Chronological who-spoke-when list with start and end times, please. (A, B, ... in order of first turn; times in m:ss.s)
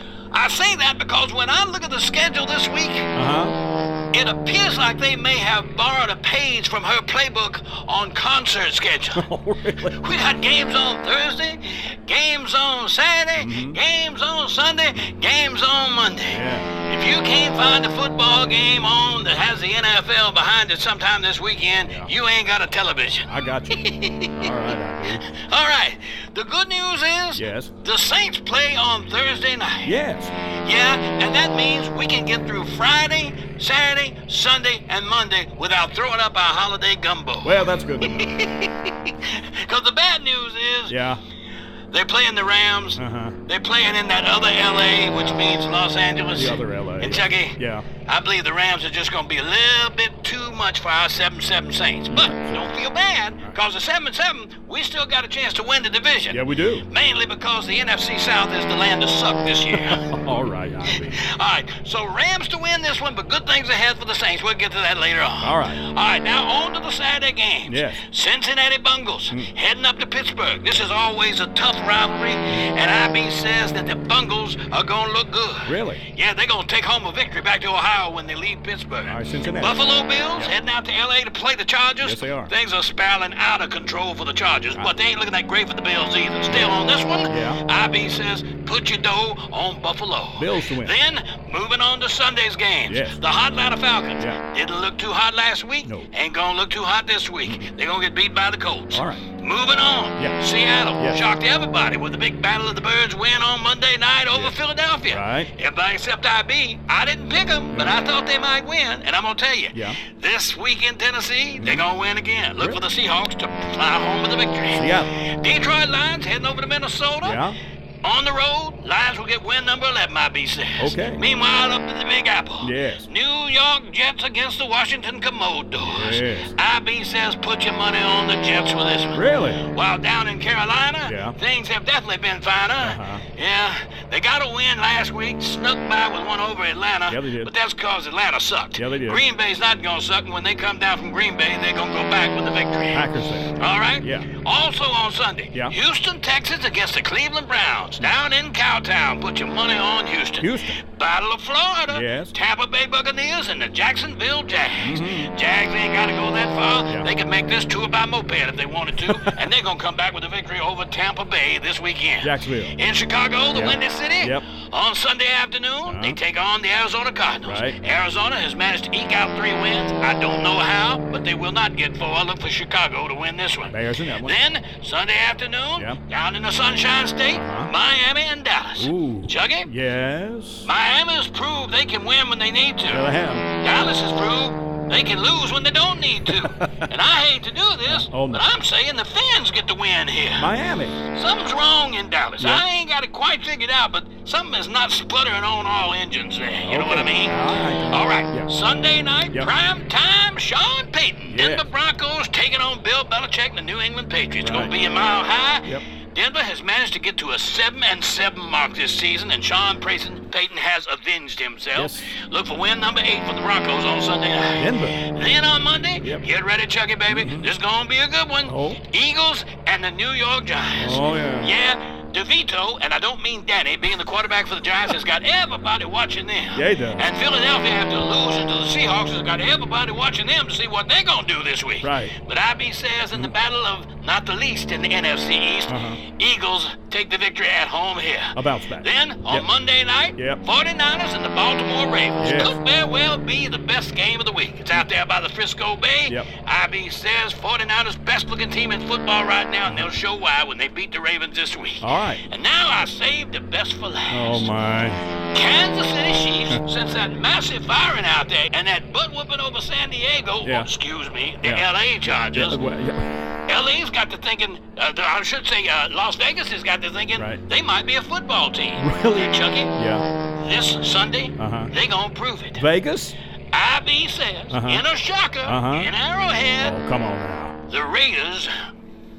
0:00.3-0:03.1 A
0:03.1-0:03.6 B
0:04.1-0:09.2 A
0:09.1-0:10.1 B
0:09.8-0:29.9 A
0:13.4-0:13.8 B
0:16.3-0:16.7 B
0:23.3-0:25.3 B
0:27.3-0:27.7 B
0:29.8-0:30.3 B
0:30.5-0:41.0 A
0:37.4-0:38.6 B
0:40.9-0:41.2 B
0:41.9-1:00.1 A
0:43.0-0:43.4 B
0:45.1-0:45.4 B
0:46.3-0:47.9 B
0:52.1-0:52.7 B
0:56.3-0:56.9 B
0:59.7-1:01.2 B
1:00.9-1:57.4 A
1:05.4-1:05.8 B
1:07.6-1:08.0 B
1:15.6-1:16.0 B
1:19.0-1:19.8 B
1:22.0-1:22.5 B
1:26.5-1:26.7 B
1:27.3-1:27.6 B
1:30.4-1:30.9 B
1:32.8-1:33.2 B
1:35.8-1:36.1 B
1:38.9-1:39.2 B
1:44.3-1:44.6 B
1:45.1-1:45.5 B
1:47.7-1:48.0 B
1:49.7-1:50.0 B
1:51.6-1:51.8 B
1:54.7-1:55.1 B
1:57.2-1:57.6 B
1:58.0-2:59.7 A
2:00.8-2:01.2 B
2:02.6-2:03.1 B
2:05.8-2:06.5 B
2:09.1-2:09.6 B
2:11.0-2:11.4 B
2:12.8-2:13.2 B
2:17.1-2:17.5 B
2:18.8-2:19.2 B
2:22.9-2:24.3 B
2:30.4-2:30.8 B
2:31.9-2:32.3 B
2:34.8-2:35.3 B
2:39.1-2:39.4 B
2:42.2-2:42.7 B
2:43.5-2:44.4 B
2:45.8-2:46.2 B
2:47.4-2:47.8 B
2:53.6-2:54.4 B
2:57.3-2:57.7 B
2:58.8-3:00.7 B
3:00.6-3:03.1 A
3:02.9-3:03.5 B
3:03.6-3:10.5 A
3:06.3-3:06.9 B
3:07.9-3:08.4 B
3:10.4-3:11.0 B
3:11.1-4:14.5 A
3:12.4-3:12.6 B
3:16.6-3:18.5 B
3:21.3-3:21.7 B
3:24.4-3:24.7 B
3:31.7-3:32.1 B
3:34.6-3:35.0 B
3:37.1-3:37.5 B
3:38.5-3:38.8 B
3:40.7-3:41.5 B
3:46.5-3:47.0 B
3:51.8-3:52.1 B
3:55.7-3:56.0 B
3:58.3-3:59.4 B
4:00.2-4:00.4 B
4:02.2-4:02.5 B
4:11.8-4:12.2 B
4:14.1-4:15.0 B
4:15.3-4:22.6 A
4:20.4-4:20.7 B
4:22.2-4:23.2 B
4:23.5-4:29.7 A
4:28.8-4:30.0 B
4:30.4-4:32.6 A
4:31.4-4:31.7 B
4:32.6-4:33.2 B
4:33.5-4:36.7 A
4:34.5-4:34.8 B
4:35.4-4:35.9 B
4:36.6-4:37.6 B
4:37.7-4:38.5 A